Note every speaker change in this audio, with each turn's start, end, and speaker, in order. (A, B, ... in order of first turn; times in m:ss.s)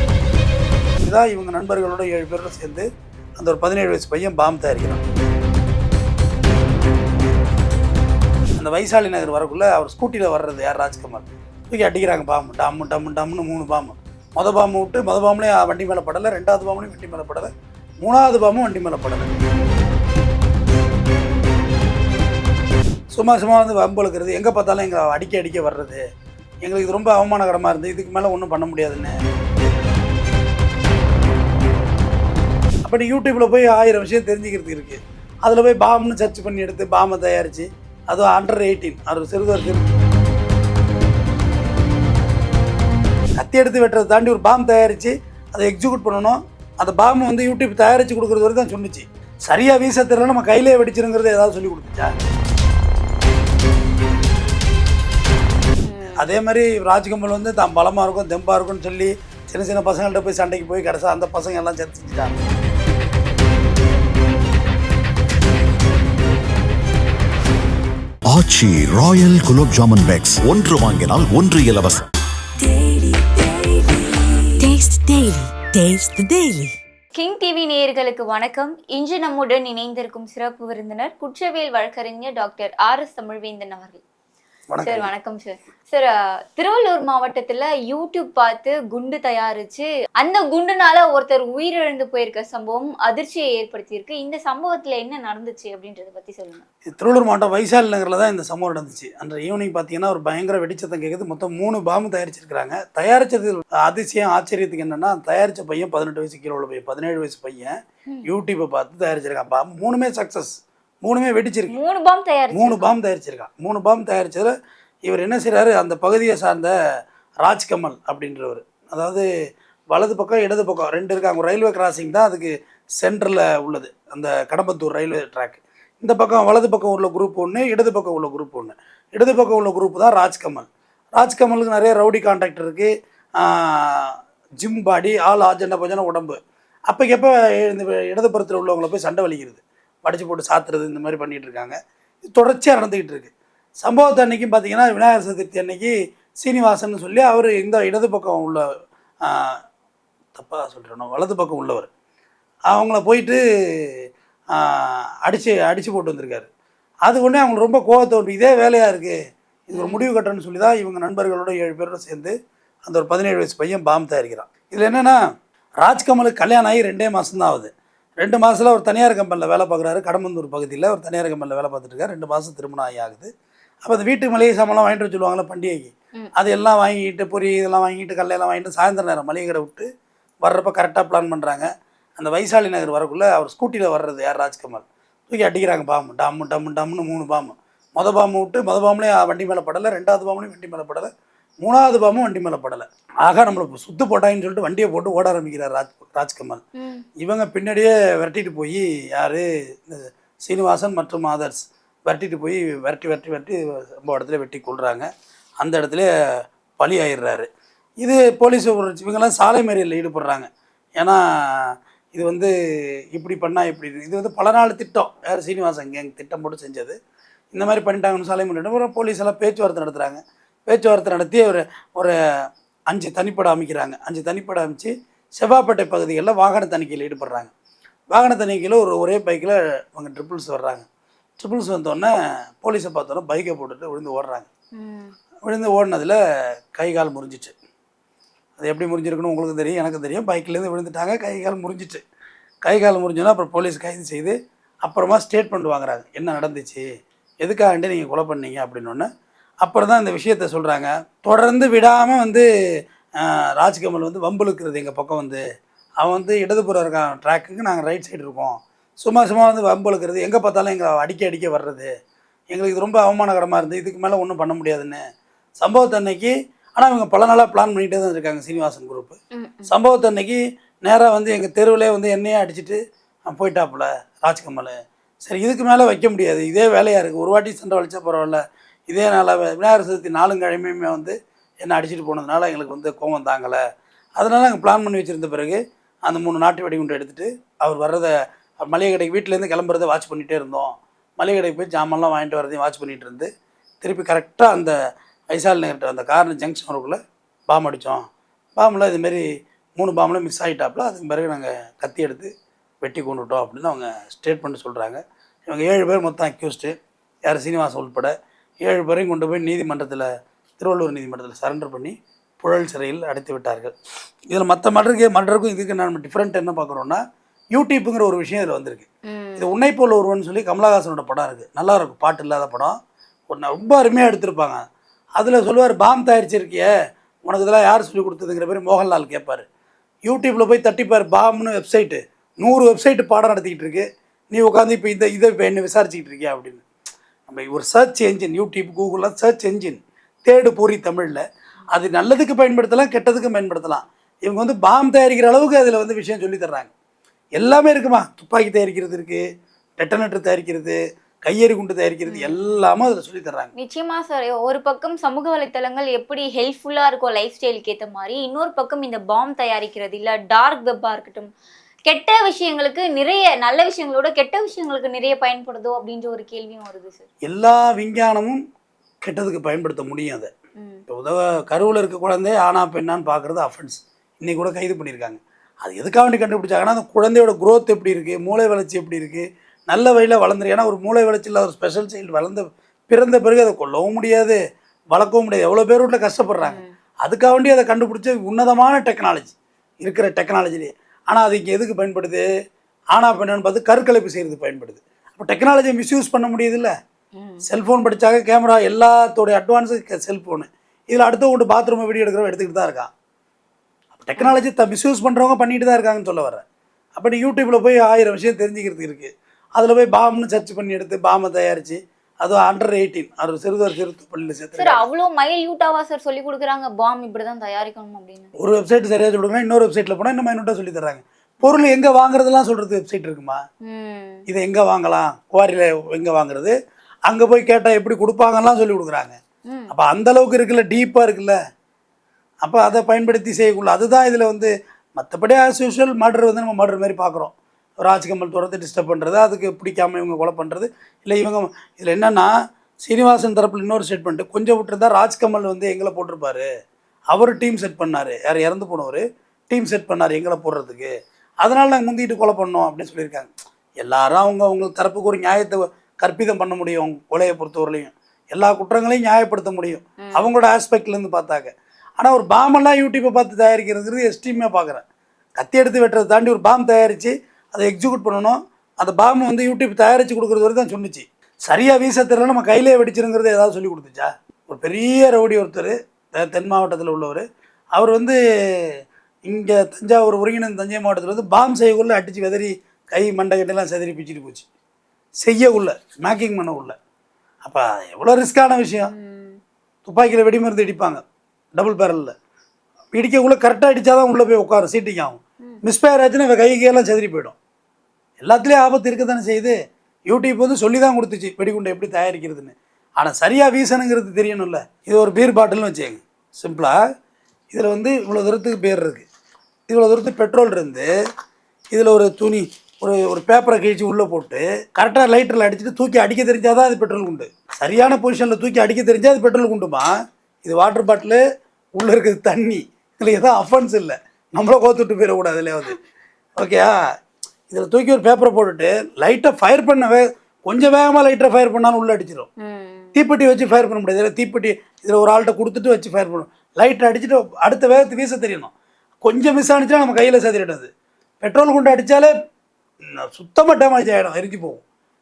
0:01.0-0:05.1 A
0:08.6-0:17.5 A
0:18.0-0:19.4 A
0:23.1-0:26.0 A
0:26.6-0:29.2 A
0:32.8-0:39.8 A
0:43.4-0:52.1 A
0:55.8-0:56.3 B
0:56.2-1:02.4 A
1:08.3-1:12.0 C
1:12.6-1:14.2 B
1:14.6-1:16.7 D
1:17.1-1:24.0 B
1:24.7-1:25.1 A
1:24.8-1:36.6 B
1:36.9-1:51.7 A
1:51.7-1:52.9 B
1:52.5-1:54.5 A
1:55.0-1:56.7 A
1:57.4-1:59.2 A
1:59.9-2:16.4 A
2:16.9-2:21.8 A
2:22.3-2:28.6 A
2:29.2-2:29.6 A
2:30.3-2:31.9 A
2:32.7-2:33.9 A
2:34.5-2:36.5 A
2:37.0-2:39.2 A
2:39.7-2:42.3 A
2:39.7-2:40.1 B
2:42.9-2:45.2 A
2:45.8-2:53.3 A
2:53.8-2:59.9 A
3:00.4-3:11.1 A
3:11.6-3:16.6 A
3:16.8-3:17.0 B
3:17.2-3:25.1 A
3:25.6-3:26.1 A
3:26.8-3:27.5 A
3:28.0-3:32.5 A
3:33.1-3:37.0 A
3:37.5-3:42.1 A
3:42.9-3:47.5 A
3:48.1-3:50.8 A
3:51.4-3:52.1 A
3:52.6-3:54.5 A
3:54.8-3:55.1 B
3:55.4-3:56.2 A
3:56.8-3:57.5 A
3:58.6-4:02.0 A
4:02.6-4:06.8 A
4:07.4-4:09.1 A
4:09.6-4:12.4 A
4:13.2-4:15.4 A
4:16.0-4:21.9 A
4:22.5-4:25.0 A
4:25.6-4:29.2 A
4:29.3-4:29.7 B
4:29.7-4:43.6 A
4:44.2-4:48.1 A
4:48.6-4:53.3 A
4:53.8-4:54.7 A
4:55.3-4:57.0 A
4:57.5-4:58.0 A
4:58.6-4:59.2 A
4:59.8-5:02.3 A
5:02.8-5:06.8 A
5:07.3-5:08.1 A
5:08.6-5:13.7 A
5:14.3-5:17.0 A
5:17.5-5:22.8 A
5:19.1-5:19.5 B
5:23.3-5:24.6 A
5:25.2-5:26.7 A
5:27.2-5:29.4 A
5:30.0-5:36.6 A
5:37.3-5:46.7 A
5:47.4-5:49.2 A
5:49.8-5:53.5 A
5:52.1-5:52.4 B
5:53.6-6:01.3 B
6:01.9-6:07.0 B
6:07.3-6:08.4 A
6:09.0-6:10.3 A
6:10.6-6:10.8 B
6:10.9-6:24.4 A
6:24.9-6:32.2 A
6:26.4-6:26.7 B
6:32.9-6:36.7 A
6:37.2-6:37.4 B
6:37.4-6:42.9 A
6:44.0-6:46.4 A
6:44.2-6:44.4 B
6:47.0-6:54.8 A
6:54.6-6:58.3 B
6:58.4-7:03.4 A
7:03.6-7:04.2 B
7:04.3-7:06.6 A
7:07.1-7:09.2 A
7:09.7-7:11.4 A
7:12.4-7:22.3 A
7:22.8-7:26.5 A
7:27.1-7:30.9 A
7:31.4-7:33.3 A
7:33.8-7:44.8 A
7:40.0-7:40.3 B
7:45.4-7:58.2 A
7:59.2-8:04.4 A
8:05.2-8:06.8 A
8:07.4-8:08.9 A
8:08.9-8:09.4 B
8:09.8-8:11.0 A
8:11.6-8:12.1 A
8:12.9-8:17.4 A
8:18.2-8:19.5 A
8:20.1-8:26.8 A
8:27.5-8:29.0 A
8:29.7-8:30.9 A
8:31.7-8:39.9 A
8:40.4-8:41.2 A
8:41.8-8:45.8 A
8:46.4-8:46.8 A
8:47.5-8:52.3 A
8:52.4-8:53.0 B
8:52.9-8:58.5 A
8:59.0-9:00.7 A
9:01.2-9:02.1 A
9:03.1-9:04.6 A